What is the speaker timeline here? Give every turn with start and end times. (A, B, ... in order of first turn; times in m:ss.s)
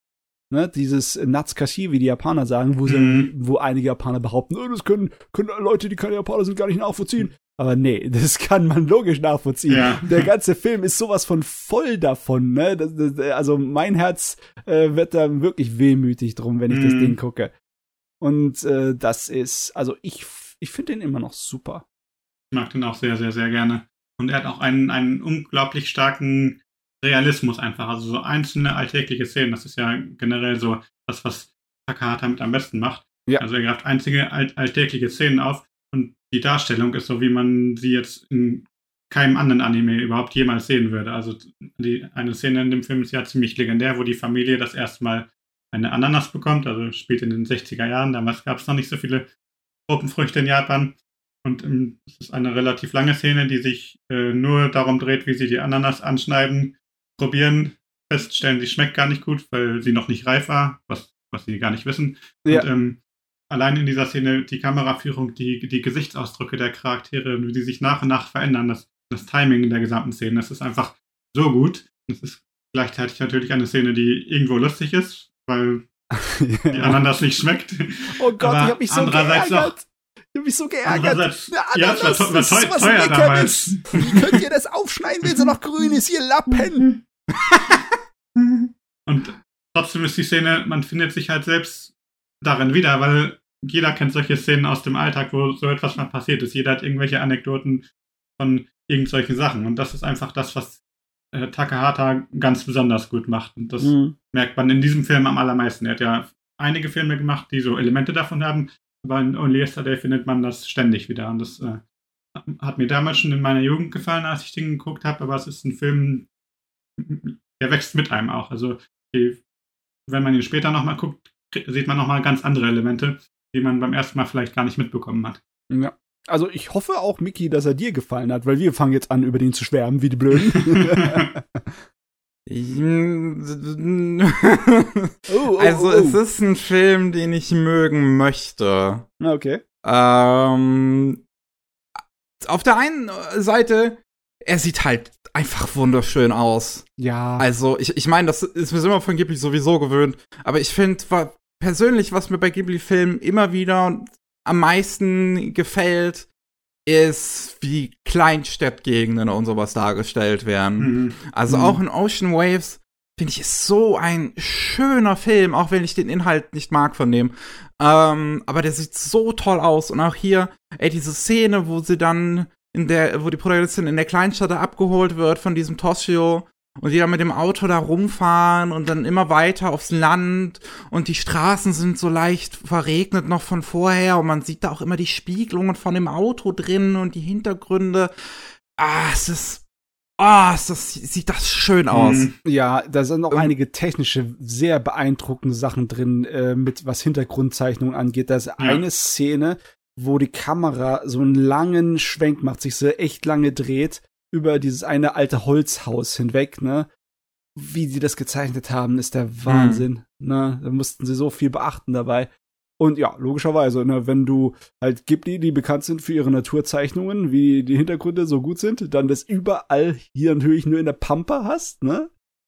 0:00.5-0:17.5 A
0:02.8-0:03.3 B
0:09.7-0:10.3 B
0:16.7-0:17.2 B
0:18.2-0:21.8 A
0:22.5-0:49.3 B
0:49.9-1:03.0 B
1:03.5-1:15.8 B
1:16.2-1:17.0 A
1:16.7-1:19.7 B
1:18.2-1:26.9 A
1:20.8-1:24.4 B
1:25.2-1:25.5 B
1:27.5-1:27.8 C
1:28.4-1:37.8 B
1:38.4-1:40.8 B
1:41.3-1:51.8 B
1:43.8-1:44.1 A
1:52.4-1:56.3 B
1:57.0-1:59.4 B
2:00.1-2:05.4 B
2:05.7-2:11.7 A
2:10.5-2:11.3 B
2:12.5-2:19.1 C
2:15.3-2:16.2 A
2:19.2-2:19.6 A
2:19.8-2:21.2 C
2:22.4-2:26.9 C
2:27.0-2:27.4 A
2:27.4-2:36.3 C
2:36.9-3:08.1 C
2:40.8-2:41.2 B
2:41.5-2:41.8 A
3:08.7-3:09.6 C
3:10.2-3:12.3 C
3:11.9-3:12.3 B
3:12.4-3:26.9 A
3:27.6-3:42.1 A
3:29.5-3:29.8 C